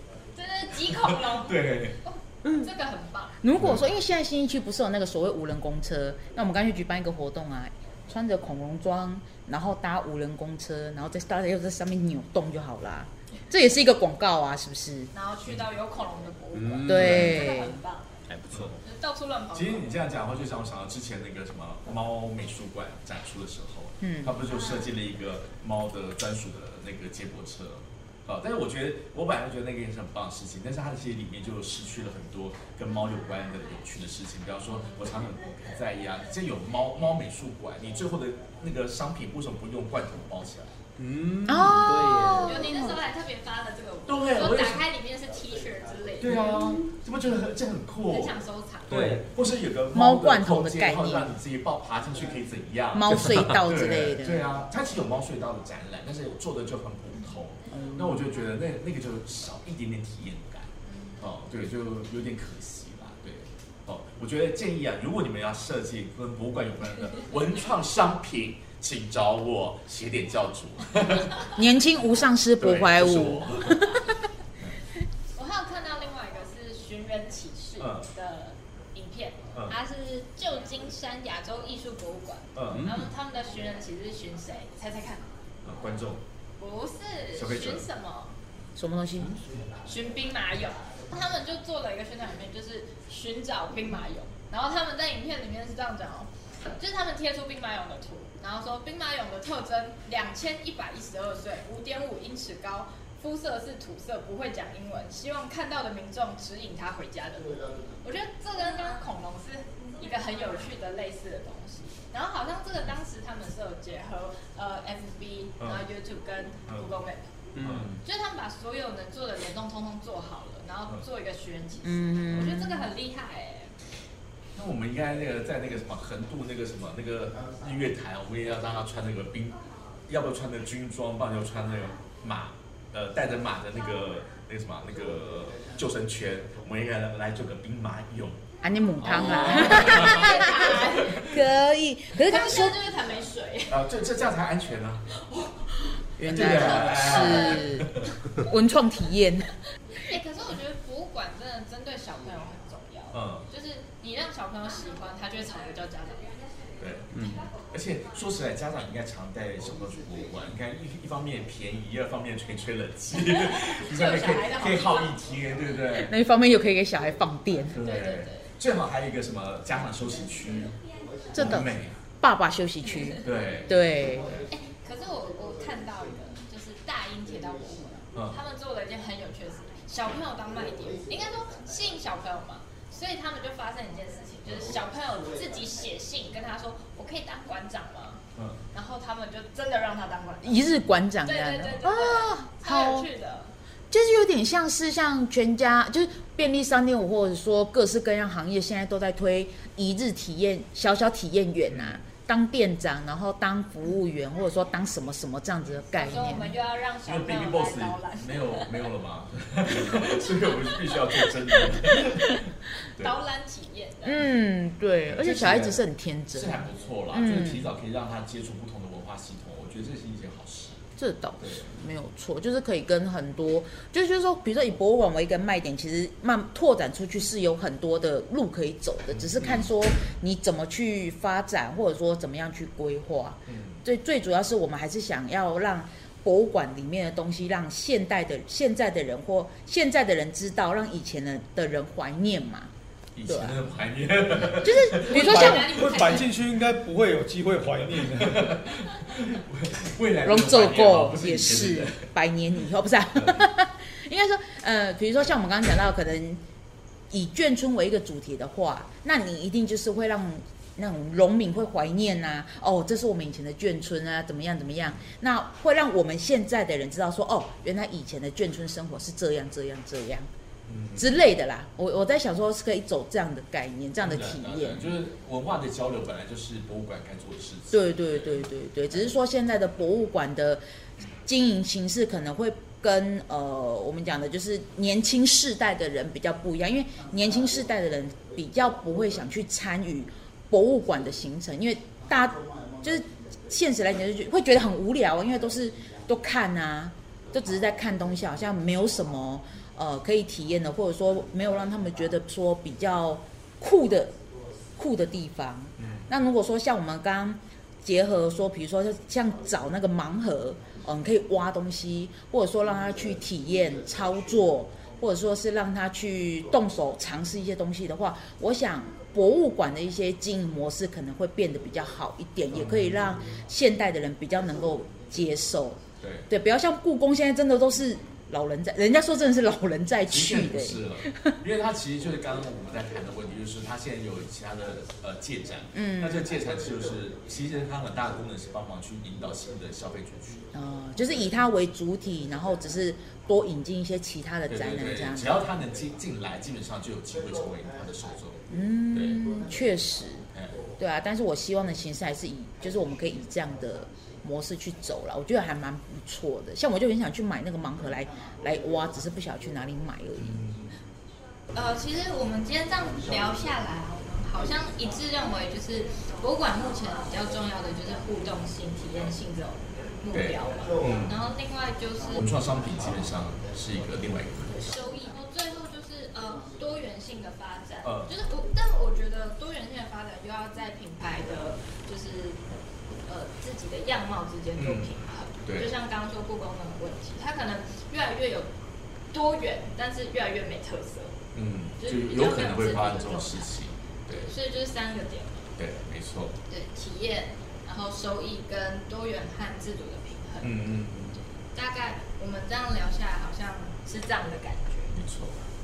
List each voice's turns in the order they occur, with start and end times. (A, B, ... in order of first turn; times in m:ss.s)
0:00.4-0:03.4 A
0:00.9-0:02.0 B
0:03.4-0:15.1 C
0:03.6-0:03.8 B
0:15.1-0:18.2 A
0:16.5-0:17.4 D
0:16.9-0:17.8 C
0:17.0-0:17.3 B
0:18.3-0:18.8 D
0:18.8-0:19.9 A
0:19.5-0:40.8 B
0:24.0-0:24.4 C
0:24.5-0:24.9 A
0:34.7-0:35.1 A
0:41.0-0:42.6 D
0:41.5-0:43.0 C
0:42.4-0:46.4 A
0:44.1-0:44.8 B
0:46.2-0:48.4 B
0:46.3-0:46.6 C
0:48.1-0:49.2 A
0:48.9-1:00.7 B
0:48.9-0:49.2 D
0:49.9-0:51.3 C
0:52.9-0:54.4 C
0:57.7-0:58.3 C
1:00.8-1:01.3 A
1:01.2-1:11.6 B
1:11.5-1:14.1 C
1:12.6-1:13.9 B
1:15.4-1:25.3 A
1:17.8-1:18.1 B
1:22.6-1:22.9 B
1:22.7-1:23.1 D
1:25.6-1:26.2 B
1:26.6-1:28.4 A
1:27.3-1:27.8 B
1:28.8-1:29.4 C
1:29.9-1:57.4 A
1:57.6-1:57.9 D
1:57.6-1:58.0 B
1:58.0-2:03.7 A
2:01.8-2:02.9 C
2:04.6-2:18.4 B
2:18.6-2:22.8 C
2:19.0-2:21.4 B
2:19.3-2:21.3 A
2:22.2-2:23.8 A
2:23.7-2:25.0 B
2:25.1-2:27.8 A
2:26.2-2:29.5 C
2:26.2-2:28.1 B
2:30.0-2:36.4 A
2:33.1-2:33.4 B
2:36.8-2:46.1 B
2:37.1-2:37.4 D
2:43.2-2:45.2 A
2:45.9-2:47.8 C
2:47.7-2:50.8 B
2:47.8-2:48.5 A
2:51.3-2:52.0 B
2:51.3-2:54.3 C
2:52.9-2:53.2 A
2:53.2-2:54.4 B
2:54.5-3:13.5 A
3:08.4-3:08.6 B
3:10.4-3:13.1 C
3:13.9-3:26.5 C
3:21.7-3:22.0 B
3:26.0-3:28.9 A
3:27.0-3:32.4 B
3:29.9-3:32.2 A
3:33.0-3:34.2 A
3:34.0-3:37.7 C
3:35.1-3:35.8 B
3:36.3-3:40.8 B
3:41.0-4:02.7 C
3:41.4-3:41.7 B
3:49.1-3:49.7 B
3:53.5-3:53.8 B
4:03.2-4:05.6 B
4:03.2-4:03.6 C
4:04.6-4:05.8 C
4:05.0-4:06.3 A
4:05.1-4:08.5 E
4:08.0-4:12.1 B
4:10.2-4:16.4 C
4:17.1-4:30.3 C
4:30.7-4:31.2 B
4:31.0-4:34.9 C
4:34.0-4:38.4 B
4:37.7-4:40.6 C
4:41.2-5:04.1 C
5:04.8-5:31.4 C
5:05.8-5:06.1 B
5:22.5-5:23.2 B
5:26.0-5:26.3 B
5:30.1-5:40.4 B
5:35.7-5:36.3 C
5:40.5-5:45.5 C
5:44.5-5:48.4 B
5:48.5-6:00.4 C
5:48.9-5:49.3 B
5:50.3-5:50.6 B
6:00.2-6:00.7 B
6:01.5-6:12.2 A
6:10.1-6:11.2 B
6:12.2-6:14.7 B
6:14.6-6:22.4 A
6:17.8-6:18.1 B
6:23.0-6:28.6 A
6:24.6-6:24.9 B
6:25.4-6:25.7 B
6:29.1-6:31.2 A
6:31.3-6:34.3 B
6:31.8-6:33.6 A
6:34.1-6:35.5 A
6:35.6-6:36.4 B
6:36.5-6:45.0 A
6:40.4-6:41.2 B
6:44.9-6:45.4 B